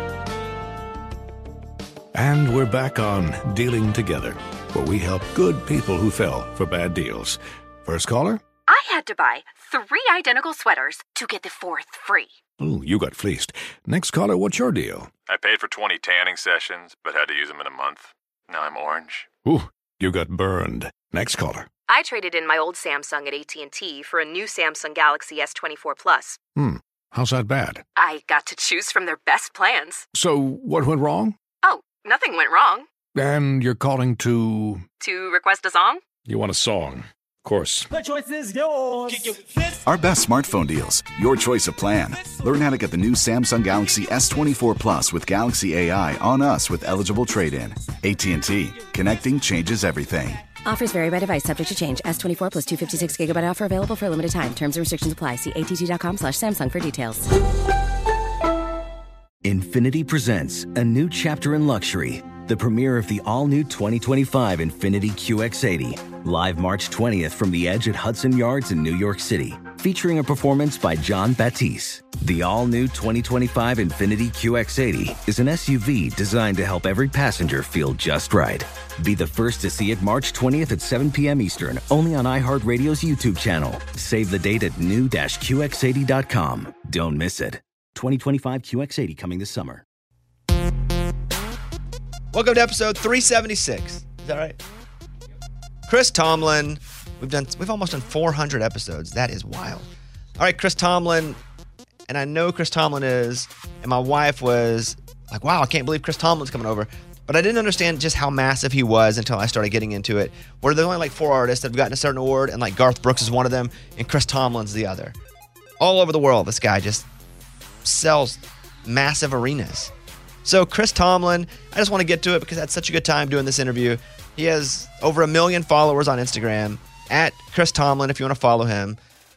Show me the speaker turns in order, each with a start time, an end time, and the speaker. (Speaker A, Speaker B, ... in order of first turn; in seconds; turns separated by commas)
Speaker A: 2.1-8.4, Speaker B: 8.7-12.4, Speaker A: 12.6-15.1, Speaker C: 15.3-19.3, Speaker A: 19.4-21.7, Speaker B: 21.9-26.4, Speaker A: 26.6-27.8, Speaker B: 27.9-30.1, Speaker A: 30.1-31.4, Speaker B: 31.6-32.9, Speaker A: 33.1-34.8, Speaker B: 35.0-36.0, Speaker A: 36.2-37.9, Speaker D: 39.8-50.4, Speaker E: 50.6-57.3, Speaker F: 59.4-89.8, Speaker G: 92.3-94.6, Speaker G: 95.9-101.4, Speaker G: 102.1-115.1, Speaker G: 115.8-117.1, Speaker G: 117.8-119.9, Speaker G: 120.4-129.0